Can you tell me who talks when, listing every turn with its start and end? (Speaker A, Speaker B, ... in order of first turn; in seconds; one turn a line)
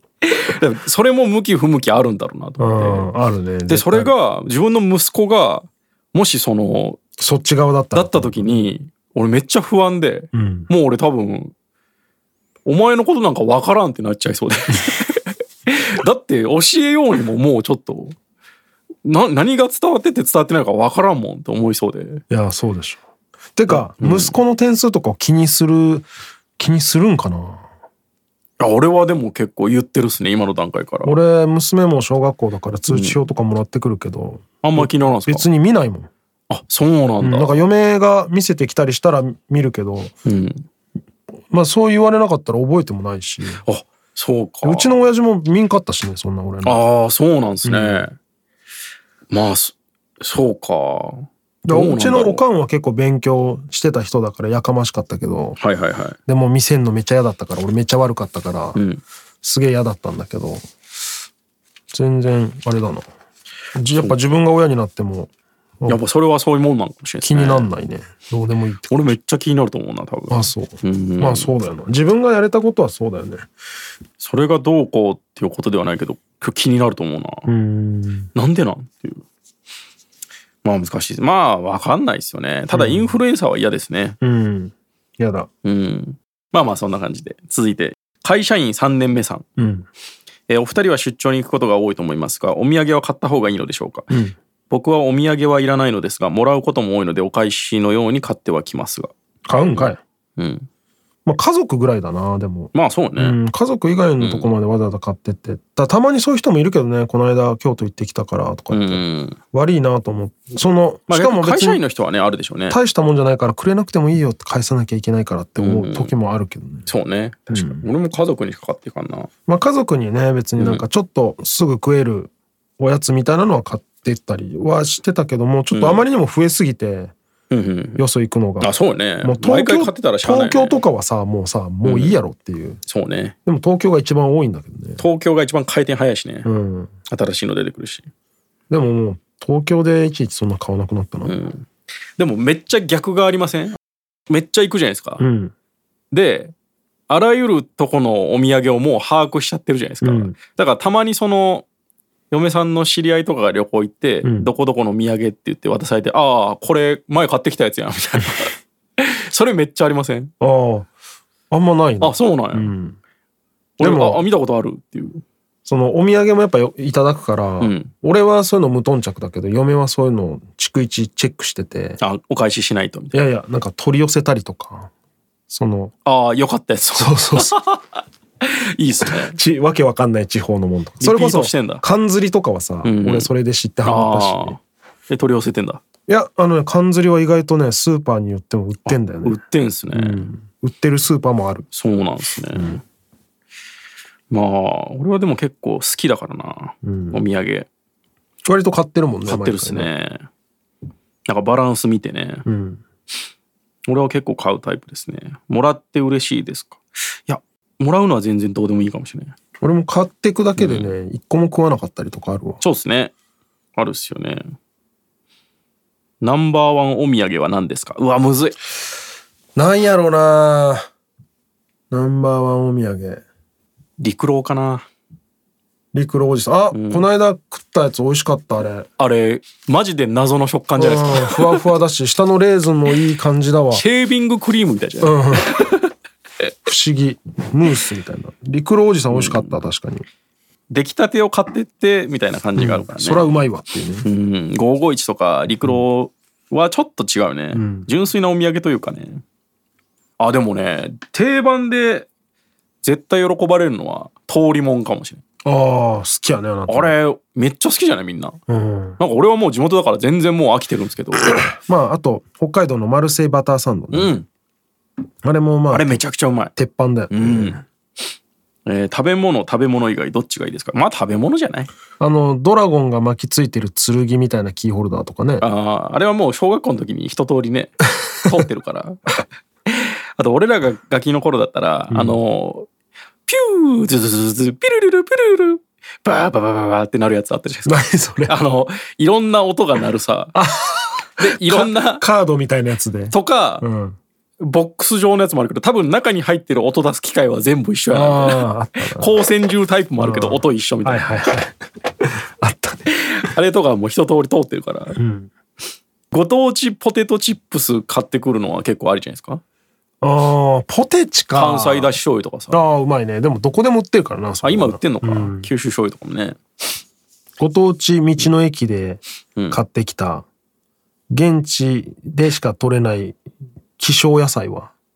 Speaker A: 0.2-3.1
Speaker B: 2.6-4.1
Speaker A: 3.7-7.0
Speaker B: 7.2-8.5
Speaker A: 7.9-11.5
Speaker B: 10.3-10.7
Speaker A: 12.6-18.1
Speaker A: 19.0-22.2
Speaker B: 22.3-23.0
Speaker B: 23.5-26.1
Speaker A: 23.7-24.4
Speaker B: 26.6-27.6
Speaker A: 28.6-31.2
Speaker B: 31.0-36.1
Speaker A: 32.9-33.2
Speaker A: 34.6-35.4
Speaker A: 36.5-37.6
Speaker B: 37.2-40.1
Speaker A: 40.2-40.6
Speaker B: 41.5-43.6
Speaker A: 43.6-44.9
Speaker B: 44.6-46.8
Speaker A: 46.6-48.1
Speaker B: 47.6-48.1
Speaker A: 49.3-52.4
Speaker B: 51.6-55.6
Speaker A: 55.6-56.2
Speaker B: 56.3-58.8
Speaker A: 58.7-59.0
Speaker B: 59.4-60.6
Speaker B: 61.9-63.0
Speaker B: 63.7-66.0
Speaker A: 63.9-64.2
Speaker A: 65.8-67.7
Speaker B: 67.2-69.1
Speaker A: 68.9-71.5
Speaker B: 70.3-73.5
Speaker A: 74.2-77.5
Speaker B: 77.5-78.3
Speaker A: 78.3-79.2
Speaker A: 80.6-84.2
Speaker B: 82.7-83.2
Speaker B: 84.2-85.5
Speaker A: 85.6-89.4
Speaker B: 89.6-89.9
Speaker A: 90.5-94.1
Speaker B: 94.1-94.3
Speaker A: 94.7-99.1
Speaker B: 99.5-100.0
Speaker A: 99.7-100.7
Speaker B: 101.2-111.8
Speaker A: 102.7-103.4
Speaker A: 104.2-104.5
Speaker A: 108.7-109.4
Speaker A: 111.1-112.8
Speaker B: 112.7-116.9
Speaker A: 115.6-116.1
Speaker A: 116.8-119.3
Speaker B: 117.5-117.8
Speaker B: 119.5-127.1
Speaker A: 120.6-120.8
Speaker A: 125.7-126.0
Speaker A: 127.5-128.0
Speaker B: 128.0-132.8
Speaker A: 128.6-130.8
Speaker A: 131.8-132.2
Speaker A: 132.8-133.3
Speaker B: 133.4-135.0
Speaker A: 135.0-136.5
Speaker B: 136.4-136.9
Speaker A: 137.1-138.1
Speaker B: 138.7-141.3
Speaker A: 141.2-143.8
Speaker A: 144.3-145.2
Speaker B: 145.2-145.5
Speaker A: 146.1-146.5
Speaker A: 147.1-151.7
Speaker B: 150.0-150.3
Speaker A: 152.3-160.3
Speaker B: 154.2-154.5
Speaker B: 160.4-160.9
Speaker B: 161.5-163.0
Speaker A: 162.0-162.7
Speaker A: 163.8-165.2
Speaker B: 163.8-164.2
Speaker B: 165.7-172.0
Speaker A: 167.6-167.9
Speaker A: 172.0-173.2
Speaker B: 173.1-174.9
Speaker B: 175.5-175.9
Speaker A: 176.0-179.3
Speaker B: 176.9-177.6
Speaker B: 179.0-184.6
Speaker A: 181.0-181.8
Speaker A: 182.8-183.3
Speaker A: 183.8-185.8
Speaker B: 186.1-189.4
Speaker A: 188.8-190.3
Speaker B: 189.9-191.7
Speaker A: 191.7-192.8
Speaker B: 192.5-192.8
Speaker A: 194.3-197.7
Speaker B: 196.8-197.2
Speaker B: 198.4-199.9
Speaker A: 199.2-200.3
Speaker A: 201.2-202.4
Speaker B: 202.4-202.8
Speaker A: 203.9-209.4
Speaker B: 209.6-212.6
Speaker A: 210.6-210.9
Speaker A: 212.6-213.1
Speaker A: 213.8-214.4
Speaker A: 216.2-218.6
Speaker B: 219.6-220.8
Speaker B: 221.9-223.2
Speaker A: 224.0-224.9
Speaker B: 225.9-228.9
Speaker A: 226.7-227.1
Speaker A: 229.0-231.7
Speaker B: 230.7-233.8
Speaker A: 233.7-235.9
Speaker B: 235.0-235.5
Speaker B: 236.7-240.0
Speaker A: 239.1-239.5
Speaker A: 240.7-243.4
Speaker B: 242.6-244.1
Speaker A: 244.0-249.2
Speaker B: 247.5-247.9
Speaker A: 250.2-252.1
Speaker A: 252.8-255.2
Speaker B: 255.4-256.9
Speaker A: 256.7-258.4
Speaker B: 258.5-259.0
Speaker A: 259.0-261.4
Speaker B: 261.3-264.1
Speaker A: 263.9-264.3
Speaker B: 265.2-266.0
Speaker A: 265.7-266.5
Speaker B: 266.6-267.6
Speaker A: 267.1-267.6
Speaker A: 268.6-271.7
Speaker B: 272.0-275.4
Speaker A: 275.4-282.7
Speaker B: 281.9-282.2
Speaker A: 283.2-290.4
Speaker B: 287.6-288.4
Speaker B: 290.3-294.0
Speaker A: 291.2-292.0
Speaker A: 293.1-293.6
Speaker A: 294.4-301.0
Speaker B: 297.9-299.2
Speaker B: 300.0-302.9
Speaker A: 302.9-304.9
Speaker B: 304.9-305.3
Speaker A: 306.1-309.4
Speaker B: 310.0-311.9
Speaker A: 311.3-312.6
Speaker B: 312.5-315.5
Speaker A: 314.4-316.4
Speaker B: 317.4-320.2
Speaker B: 321.1-323.2
Speaker B: 323.8-324.7